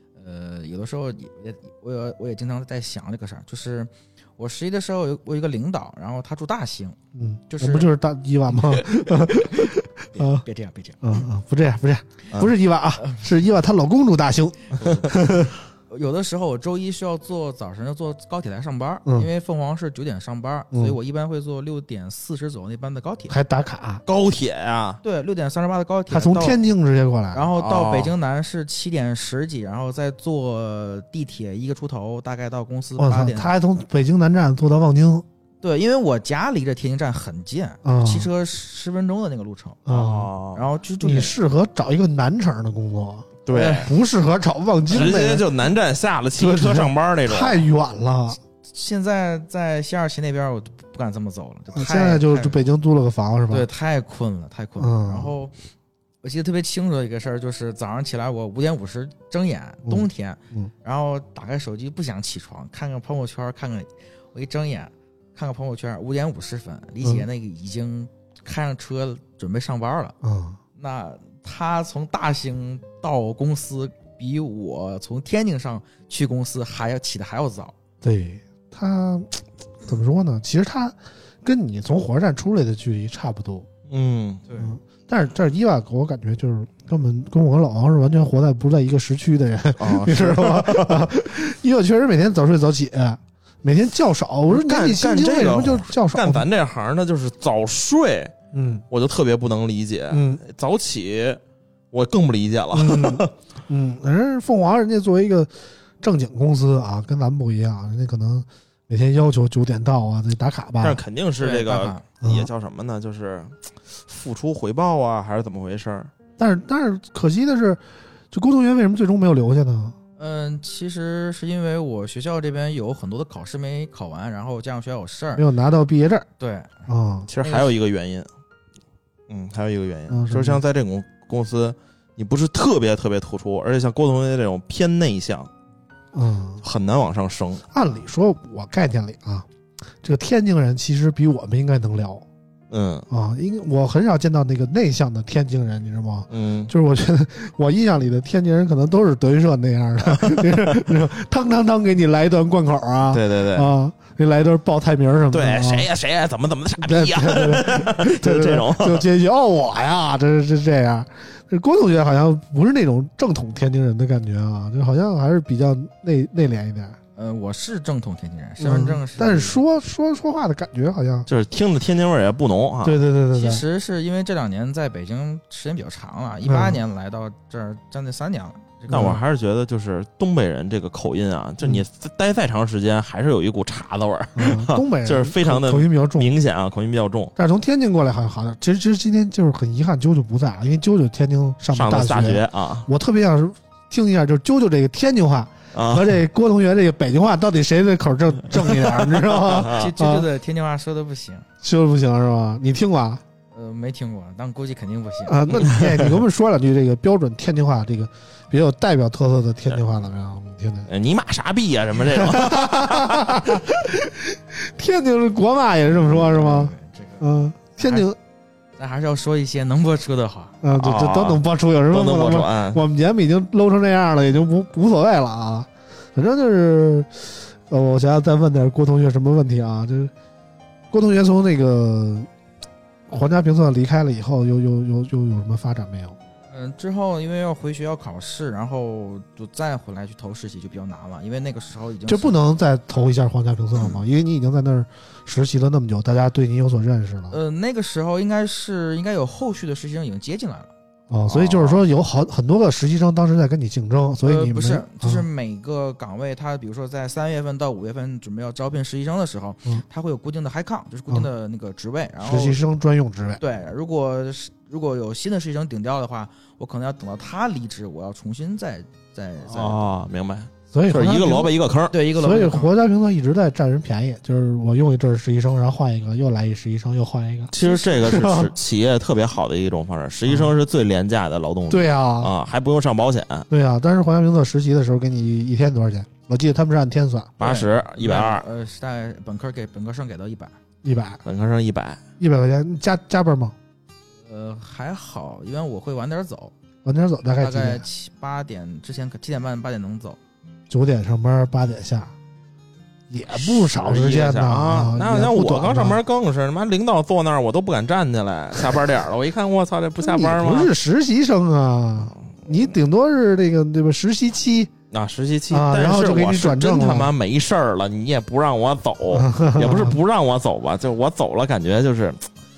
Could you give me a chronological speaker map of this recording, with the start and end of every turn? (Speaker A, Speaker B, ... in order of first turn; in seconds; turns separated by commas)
Speaker A: 0.2-7.0, Speaker B: 7.1-10.4, Speaker A: 7.5-7.9, Speaker A: 8.5-11.2, Speaker B: 11.0-15.6, Speaker A: 14.7-23.4, Speaker B: 23.3-24.0, Speaker C: 24.1-25.0, Speaker A: 25.0-26.6, Speaker B: 26.1-27.5, Speaker A: 27.3-33.5, Speaker C: 27.6-28.1, Speaker B: 33.0-35.2, Speaker A: 35.6-39.8, Speaker B: 37.8-38.3, Speaker B: 39.9-40.3, Speaker C: 39.9-40.6, Speaker A: 40.5-41.3, Speaker B: 41.0-45.5, Speaker C: 43.5-43.9, Speaker A: 43.5-43.9, Speaker C: 44.9-47.6, Speaker B: 46.4-48.4, Speaker A: 48.7-52.6, Speaker B: 51.7-53.7, Speaker A: 53.5-55.5, Speaker B: 54.8-55.3, Speaker A: 56.2-70.2, Speaker B: 59.9-60.7, Speaker B: 70.2-70.6, Speaker A: 70.8-77.7, Speaker B: 78.0-83.7, Speaker C: 83.9-84.4, Speaker A: 84.5-84.8, Speaker B: 84.6-96.5, Speaker C: 89.8-91.1, Speaker C: 94.5-98.3, Speaker B: 98.5-98.8, Speaker C: 98.9-101.4, Speaker B: 100.1-100.4, Speaker C: 101.9-103.3, Speaker B: 102.7-111.0, Speaker C: 110.8-116.1, Speaker A: 111.4-112.0, Speaker B: 112.2-112.5, Speaker B: 116.4-120.0, Speaker A: 120.2-125.5, Speaker B: 125.4-126.3, Speaker A: 126.4-126.8, Speaker B: 126.9-127.3, Speaker C: 127.3-128.3, Speaker A: 127.4-127.7, Speaker C: 129.3-135.5, Speaker B: 130.1-130.6, Speaker B: 136.1-136.6, Speaker C: 136.6-137.6, Speaker B: 137.7-139.5, Speaker B: 140.0-142.2, Speaker C: 142.7-143.1, Speaker B: 143.1-155.9, Speaker C: 146.3-146.7, Speaker C: 150.1-150.8, Speaker C: 153.1-153.7, Speaker C: 155.3-159.1, Speaker B: 156.8-167.0, Speaker A: 167.2-169.6, Speaker B: 168.6-171.3, Speaker C: 171.3-173.0, Speaker B: 172.8-173.6, Speaker A: 173.3-179.2, Speaker B: 176.5-176.8, Speaker C: 178.9-187.3, Speaker B: 178.9-179.2, Speaker B: 184.4-186.3, Speaker B: 187.4-200.3, Speaker C: 191.7-192.9, Speaker C: 195.7-196.1, Speaker C: 198.8-199.9, Speaker A: 199.5-201.4, Speaker B: 201.6-203.2, Speaker A: 203.5-205.5, Speaker B: 205.3-210.9, Speaker C: 205.7-206.1, Speaker C: 210.9-213.5, Speaker B: 212.1-218.2, Speaker A: 216.1-218.1, Speaker A: 218.8-220.6, Speaker B: 220.6-230.1, Speaker C: 220.8-222.8, Speaker B: 230.9-232.3, Speaker B: 233.1-236.2, Speaker A: 236.5-242.4, Speaker B: 242.1-247.4, Speaker A: 243.8-244.0, Speaker A: 247.3-250.7, Speaker B: 251.1-255.2, Speaker A: 251.3-251.8, Speaker A: 254.2-262.6, Speaker B: 262.2-263.4, Speaker A: 263.4-269.8, Speaker C: 269.5-271.9, Speaker B: 270.7-271.5, Speaker A: 271.9-272.7, Speaker B: 272.2-278.5, Speaker C: 277.5-283.5, Speaker A: 277.6-278.1, Speaker B: 280.3-280.5, Speaker B: 281.7-282.3, Speaker B: 283.5-287.3, Speaker C: 287.4-288.4, Speaker A: 287.4-290.6, Speaker B: 290.8-291.2, Speaker C: 291.2-292.0, Speaker B: 292.2-293.6, Speaker A: 294.3-296.5, Speaker B: 296.8-297.9, Speaker A: 297.4-300.2, Speaker B: 300.7-302.1, Speaker B: 303.1-306.0, Speaker C: 303.3-310.7, Speaker B: 310.0-314.7, Speaker C: 314.9-322.3, Speaker B: 315.5-317.1, Speaker B: 319.1-320.0